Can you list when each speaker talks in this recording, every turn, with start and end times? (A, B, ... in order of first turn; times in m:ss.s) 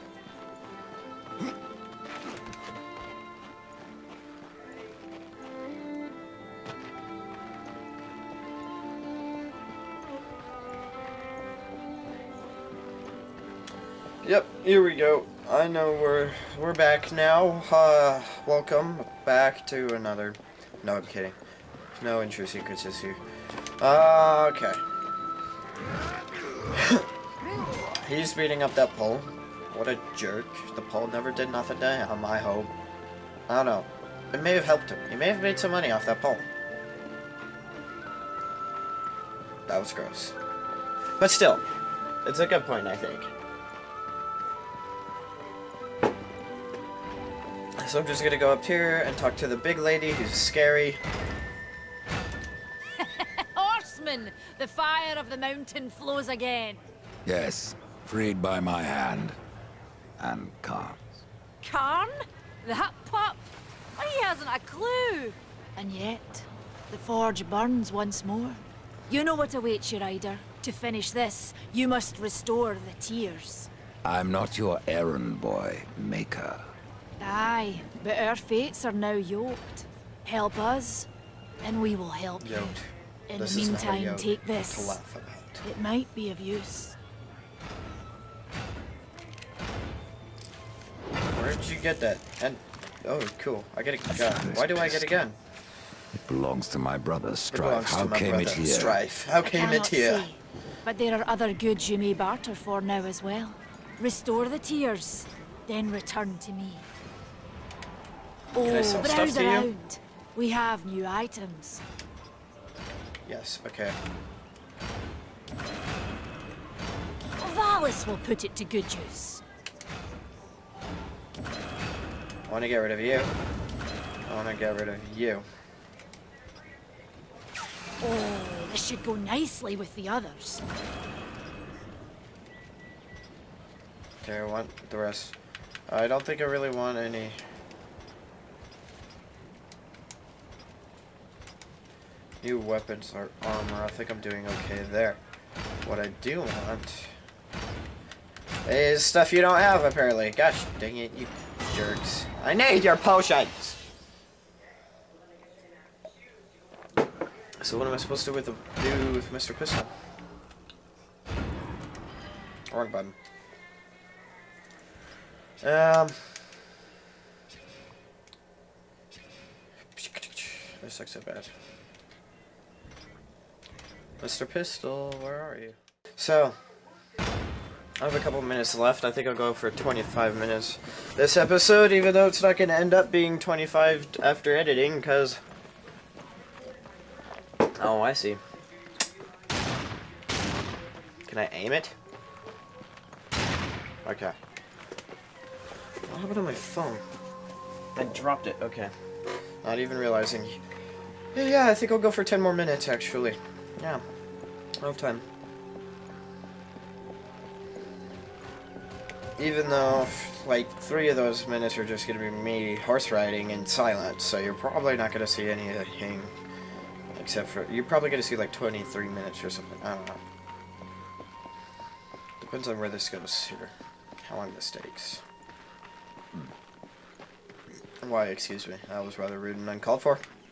0:14.2-0:21.3 A
0:22.0-0:23.2 A
0:23.8-0:24.8 A
0:26.7-0:27.1 A
0:28.0-0:32.7 A
0:33.5-0:36.4 A
0:39.7-0:40.3 A
0:41.2-0:41.6 A
0:42.2-0:43.3 A
0:47.8-0:51.0 A
0:53.0-0:56.8 B
0:57.2-0:59.4 C
1:00.2-1:01.2 C
1:01.6-1:03.4 B
1:04.0-1:13.7 B
1:14.0-1:16.7 C
1:17.2-1:21.1 B
1:21.6-1:22.8 B
1:22.4-1:25.6 A
1:23.3-1:25.0 B
1:25.6-1:26.9 B
1:31.3-1:35.4 A
1:34.1-1:35.1 C
1:36.1-1:39.0 C
1:37.5-1:40.3 A
1:39.4-1:46.8 B
1:48.5-1:51.8 B
1:48.6-1:49.7 A
1:53.2-1:54.0 A
1:57.4-1:59.4 B
2:02.5-2:03.3 A
2:04.2-2:05.4 A
2:08.0-2:10.6 B
2:14.2-2:15.3 A
2:15.9-2:17.4 A
2:22.4-2:25.2 A
2:25.8-2:27.2 A
2:28.6-2:33.8 A
2:37.6-2:39.9 A
2:42.7-2:43.2 A
2:45.6-2:46.4 A
2:49.9-2:51.5 A
2:54.2-2:56.6 A
2:58.0-3:05.4 A
3:07.8-3:08.4 A
3:11.3-3:11.9 A
3:14.0-3:14.4 A
3:16.1-3:17.0 A
3:17.9-3:18.9 A
3:19.6-3:20.6 A
3:21.3-3:24.0 A
3:24.8-3:25.2 A
3:29.4-3:36.3 A
3:37.1-3:40.2 A
3:42.4-3:43.7 A
3:44.2-3:45.2 A
3:48.0-3:50.2 A